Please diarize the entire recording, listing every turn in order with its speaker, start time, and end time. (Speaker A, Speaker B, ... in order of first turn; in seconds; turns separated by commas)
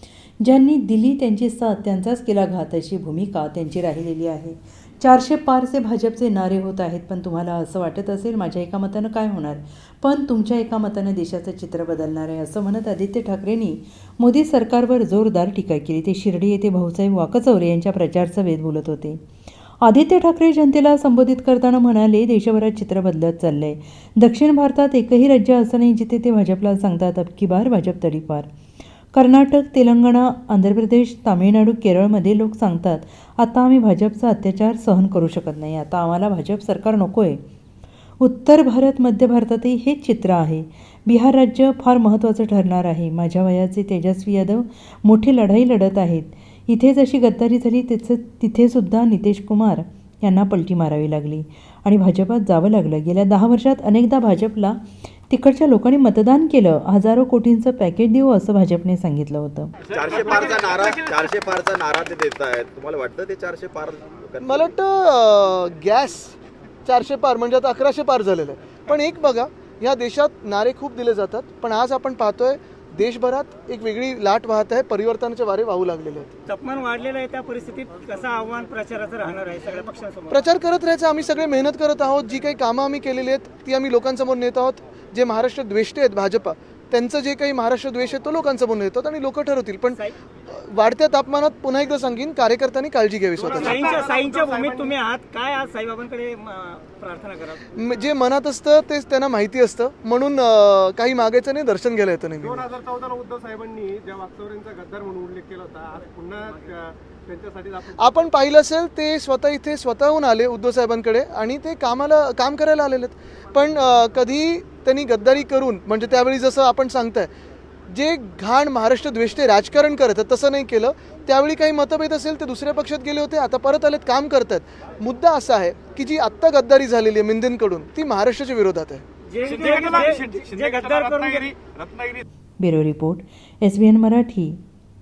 Speaker A: 0.4-19.2, Speaker A: 19.8-28.5, Speaker A: 29.1-37.4, Speaker A: 38.2-59.7, Speaker B: 59.9-64.7, Speaker C: 64.4-76.3, Speaker D: 76.5-80.4, Speaker C: 80.3-93.8, Speaker E: 93.4-94.9, Speaker D: 93.5-97.8, Speaker C: 97.8-102.7, Speaker E: 102.4-108.2, Speaker C: 108.0-117.3, Speaker C: 117.9-129.0, Speaker D: 129.3-131.5, Speaker B: 129.5-132.2, Speaker A: 132.6-134.6